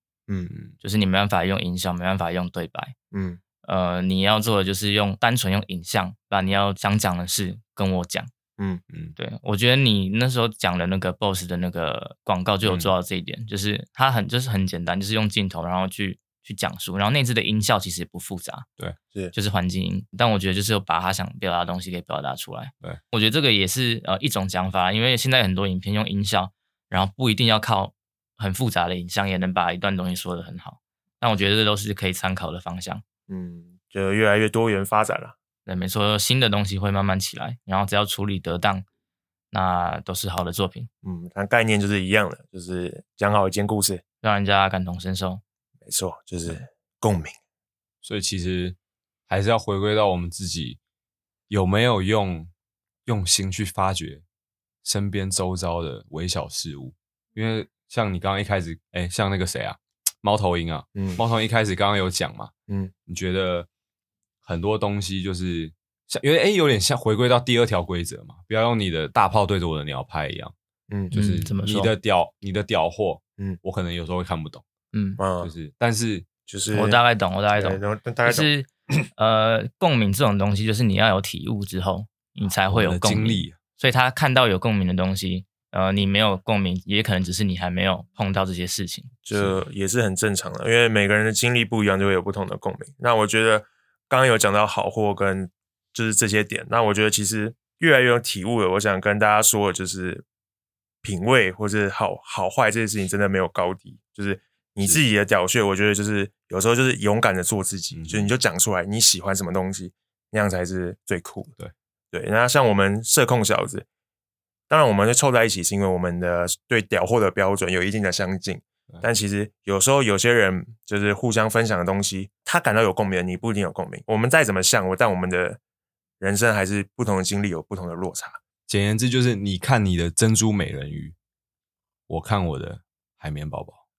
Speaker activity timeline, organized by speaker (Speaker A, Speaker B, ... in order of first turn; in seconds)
Speaker A: 0.5-0.7, 12.7-12.9, 48.0-48.8, 49.3-50.8, 51.5-52.5, 53.0-54.2, 54.8-62.5, 63.0-63.7, 64.4-70.5, 71.1-74.7, 75.4-76.2, 82.7-83.6, 89.3-89.6, 107.9-108.3, 128.7-131.2, 132.1-133.8
Speaker B: 0.8-2.9, 3.6-8.3, 9.2-18.7, 19.3-33.0, 35.6-38.9, 39.5-40.9, 44.2-45.4, 71.1-71.9, 74.9-75.2, 76.7-89.1
Speaker C: 3.1-3.4, 8.6-8.8, 33.3-35.4, 41.0-44.0, 45.8-47.4, 60.9-61.2, 62.7-62.9, 75.2-75.5, 76.5-77.0, 77.5-78.5, 89.2-100.2, 101.0-111.5, 112.1-113.8, 114.7-125.6, 126.2-128.4